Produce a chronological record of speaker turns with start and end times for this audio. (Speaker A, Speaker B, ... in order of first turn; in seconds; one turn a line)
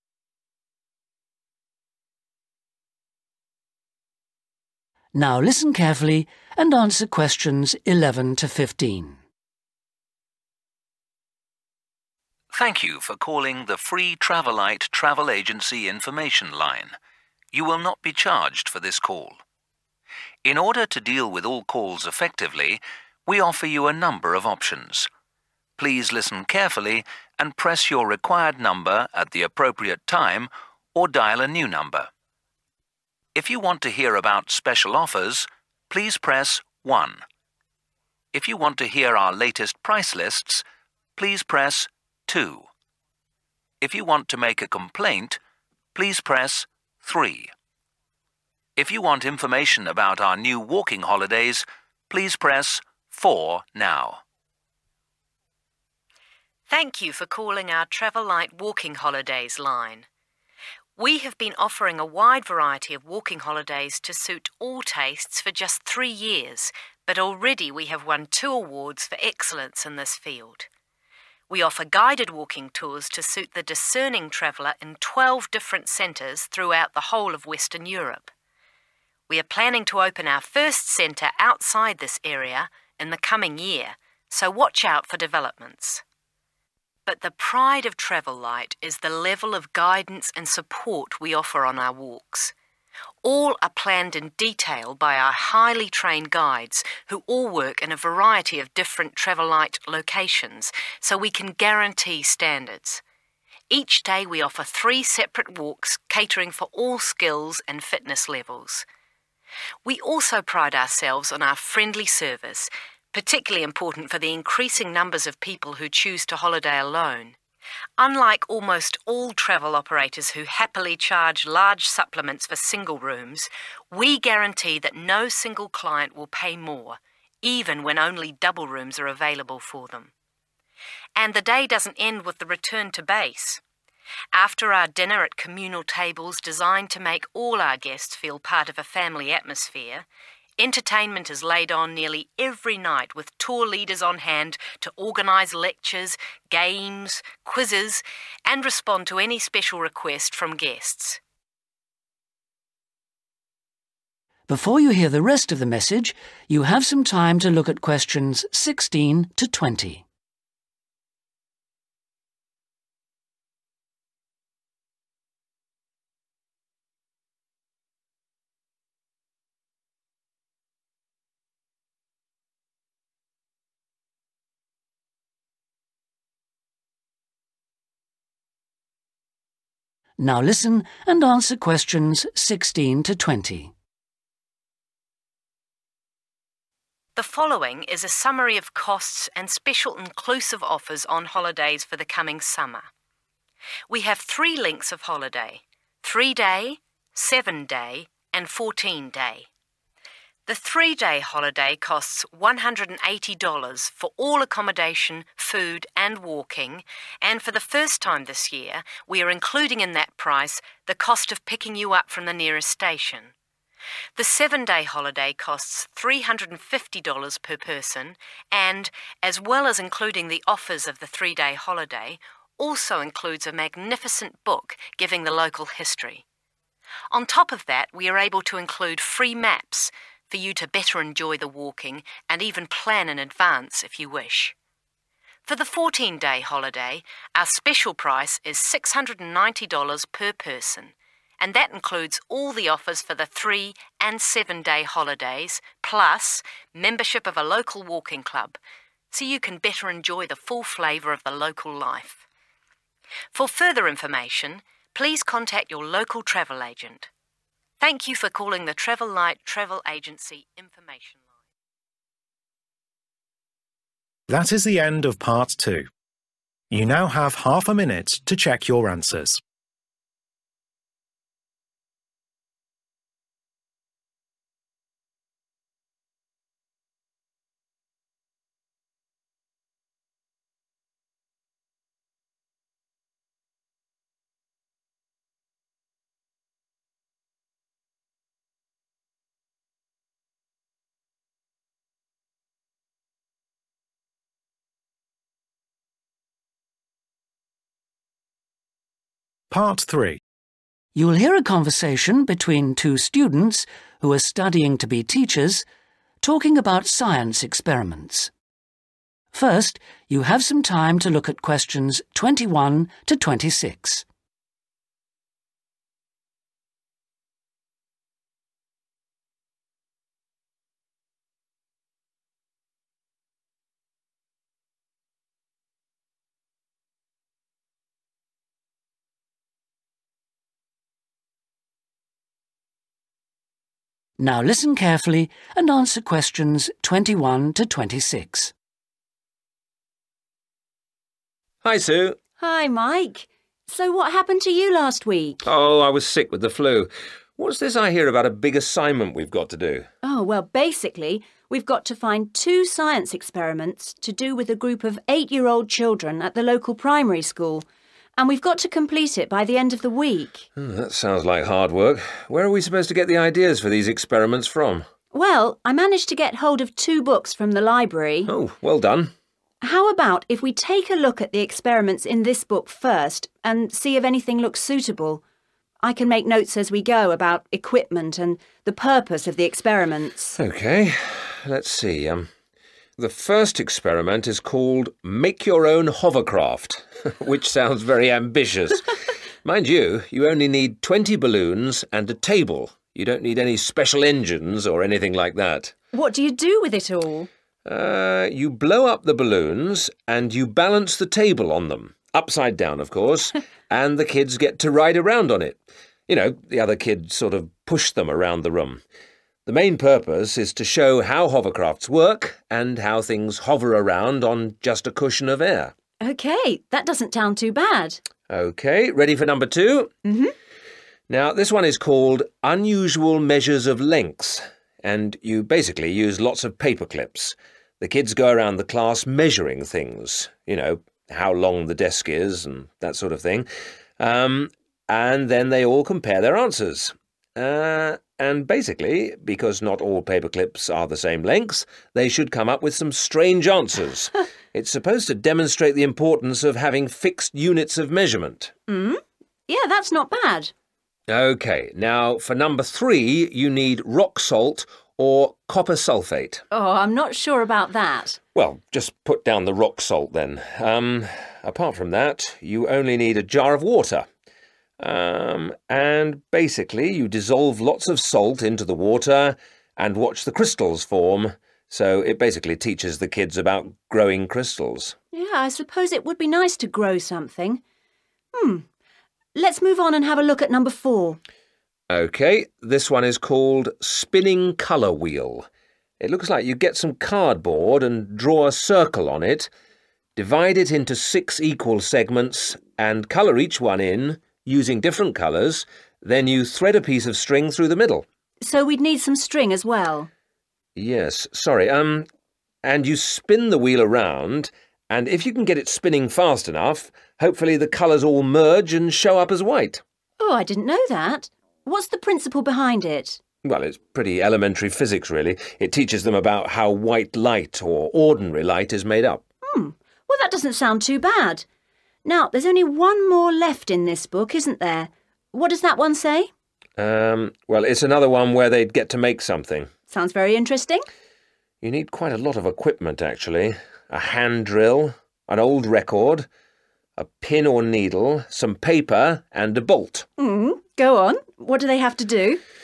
Speaker A: 5.1-9.2
Speaker B: 12.5-17.0
Speaker B: 17.5-19.4
Speaker B: 20.4-25.1
Speaker B: 25.8-32.1
Speaker B: 33.3-37.2
Speaker B: 38.3-40.6
Speaker B: 41.1-42.7
Speaker B: 43.8-45.4
Speaker B: 45.9-47.5
Speaker B: 48.8-54.2
Speaker C: 56.7-60.1
Speaker C: 61.0-70.7
Speaker C: 71.5-78.3
Speaker C: 79.3-86.0
Speaker C: 87.0-92.5
Speaker C: 93.2-103.0
Speaker C: 103.7-108.8
Speaker C: 109.8-117.4
Speaker C: 118.0-130.1
Speaker C: 131.2-133.6
Speaker C: 134.3-140.1
Speaker C: 140.6-151.2
Speaker A: 154.5-160.0
Speaker A: 180.2-183.7
Speaker C: 187.2-192.9
Speaker C: 193.9-199.5
Speaker C: 200.5-213.3
Speaker C: 214.2-226.2
Speaker C: 227.1-234.6
Speaker C: 235.4-248.6
Speaker C: 249.1-252.2
Speaker C: 253.3-257.1
Speaker C: 257.8-261.2
Speaker D: 264.3-265.9
Speaker D: 266.7-269.4
Speaker D: 299.5-300.2
Speaker A: 300.9-305.6
Speaker A: 306.2-308.3
Speaker A: 309.3-314.0
Speaker A: 334.2-338.5
Speaker E: 341.6-342.2
Speaker F: 342.4-345.4
Speaker E: 345.4-349.9
Speaker F: 350.0-357.6
Speaker F: 358.2-360.4
Speaker E: 360.6-364.9
Speaker F: 365.1-368.3
Speaker E: 368.3-369.1
Speaker F: 369.6-375.2
Speaker F: 375.8-380.4
Speaker E: 380.4-382.3
Speaker E: 383.0-388.9
Speaker E: 389.4-395.7
Speaker F: 395.9-397.3
Speaker E: 397.6-408.8
Speaker E: 409.4-415.7
Speaker F: 416.0-418.0
Speaker E: 418.3-419.9
Speaker F: 420.0-420.3
Speaker E: 421.1-448.5
Speaker F: 448.7-450.5
Speaker E: 451.1-456.4
Speaker F: 456.5-458.2
Speaker E: 458.3-464.1
Speaker E: 464.8-474.9
Speaker F: 475.1-477.6
Speaker F: 478.3-478.6
Speaker F: 479.3-481.2
Speaker E: 481.9-485.5
Speaker E: 486.0-489.5
Speaker E: 490.1-498.0
Speaker F: 498.4-500.1
Speaker E: 500.8-502.1
Speaker E: 502.6-509.8
Speaker F: 510.2-513.2
Speaker E: 513.4-519.2
Speaker F: 519.5-521.4
Speaker F: 522.0-526.3
Speaker E: 526.8-529.7
Speaker F: 529.9-530.8
Speaker E: 531.6-536.3
Speaker E: 537.0-540.0
Speaker F: 540.2-542.4